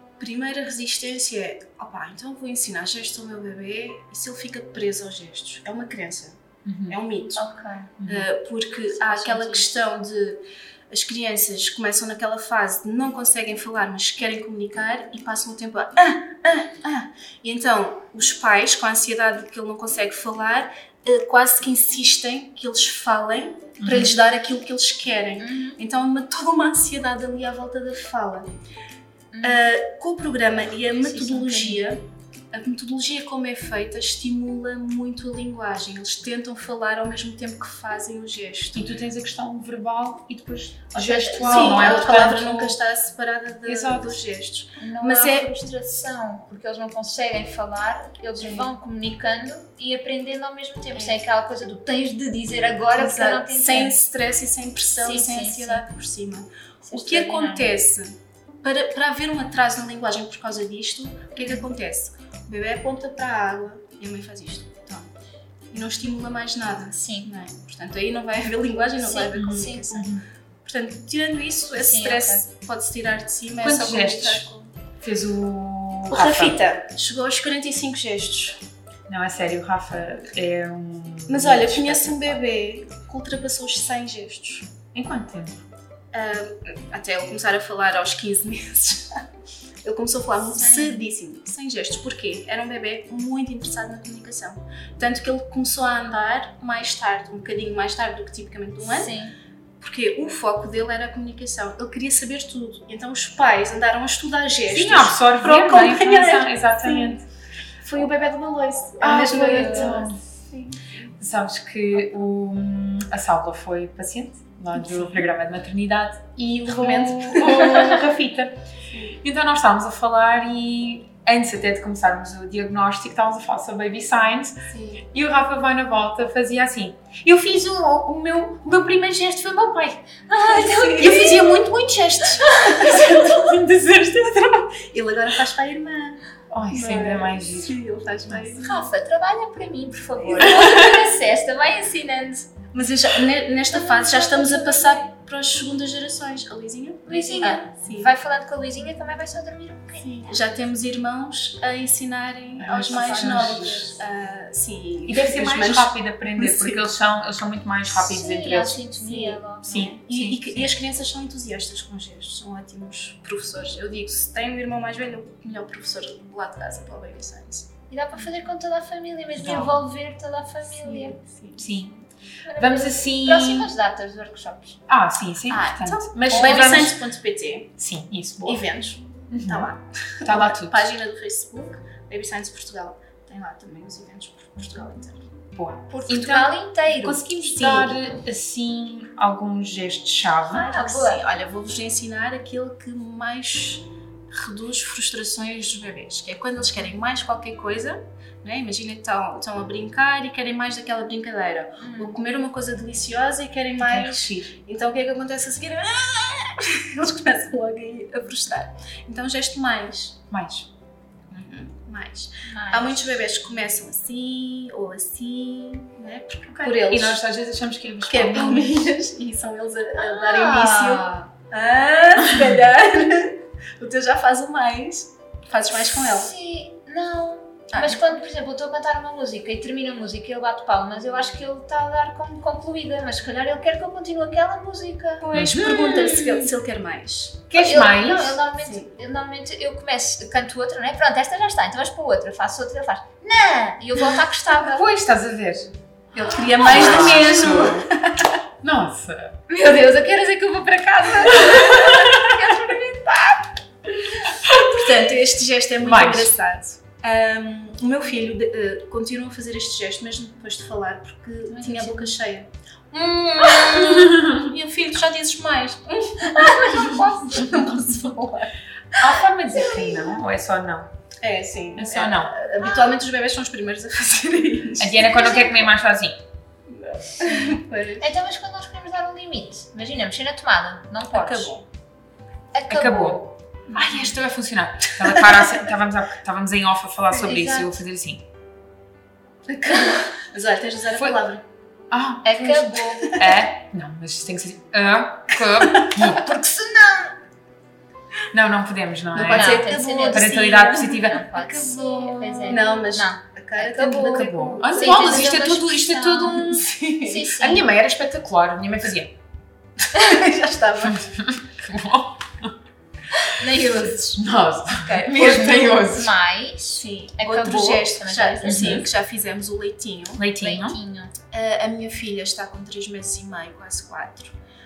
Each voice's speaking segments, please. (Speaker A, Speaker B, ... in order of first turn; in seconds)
Speaker A: 0.2-7.5, 8.1-28.5, 29.4-32.0, 32.5-38.9, 41.4-45.5, 48.4-48.7, 50.9-51.2, 52.9-65.1, 65.7-74.7, 76.1-78.6, 81.3-84.7, 86.1-89.2, 89.8-99.1, 99.8-107.2, 107.8-111.1, 114.8-115.2, 116.7-118.1, 118.9-119.2, 124.7-125.0, 130.5-133.6, 134.7-138.8, 140.2-140.9, 142.7-148.1, 150.0-156.9, 159.0-167.7, 170.7-171.6, 175.5-177.7, 178.4-185.3, 187.5-187.9, 190.5-210.2, 211.3-217.2, 218.1-226.3, 227.7-228.0, 235.2-237.5, 238.6-238.9, 246.1-248.3, 249.5-253.5, 254.3-262.5, 263.5-268.5, 269.7-270.1, 271.2-275.3, 276.7-278.1, 281.1-281.6, 283.7-284.1, 285.0-285.5, 289.5-291.4, 292.4-293.3, 295.6-295.9, 299.1-305.4, 306.4-307.4, 309.9-311.1, 313.4-316.0, 316.8-320.2, 321.2-324.3
Speaker B: 6.6-7.0, 8.0-8.3, 23.8-24.1, 38.7-42.8, 43.6-44.2, 69.3-70.2, 73.6-74.5, 75.0-76.6, 79.1-82.4, 84.9-85.7, 104.7-107.2, 109.0-110.2, 111.2-118.6, 119.2-130.1, 132.9-134.7, 136.5-138.5, 152.6-153.9, 155.0-158.9, 159.6-160.7, 169.3-169.8, 171.6-172.0, 172.6-173.7, 174.9-177.0, 177.8-178.6, 179.3-179.7, 180.2-180.9, 185.5-190.7, 203.8-204.5, 210.3-210.7, 216.5-218.9, 235.3-236.5, 237.5-238.4, 244.6-245.7, 246.6-247.9, 248.6-249.4, 251.5-252.3, 254.4-254.8, 255.8-256.3, 262.9-264.5, 268.9-270.9, 271.7-272.4, 274.8-276.2, 282.7-288.2, 290.9-291.2, 291.9-296.3, 298.3-302.8, 303.9-306.7, 307.4-309.1, 310.8-312.5, 314.1-316.1, 318.4-318.9, 320.1-320.8
Speaker C: 7.3-7.9, 8.9-9.7, 25.4-25.8, 29.3-29.6, 30.9-31.9, 40.9-42.2, 44.8-54.0, 55.0-55.8, 56.8-57.7, 66.9-67.3, 69.0-70.0, 71.7-72.4, 90.5-91.1, 98.9-99.3, 130.3-131.7, 132.4-132.9, 138.6-142.5, 143.7-145.1, 147.1-150.3, 152.8-153.9, 157.9-160.0, 167.9-171.2, 172.4-174.8, 185.9-187.2, 190.5-191.2, 201.8-202.2, 212.5-213.1, 219.9-221.2, 225.9-235.6, 237.5-244.9, 250.9-251.7, 252.3-252.7, 261.5-262.1, 266.3-267.5, 275.1-275.7, 277.2-281.5, 282.5-283.3, 287.1-287.8, 292.2-293.2, 295.9-297.2, 299.3-307.7, 315.3-318.9, 320.3-321.1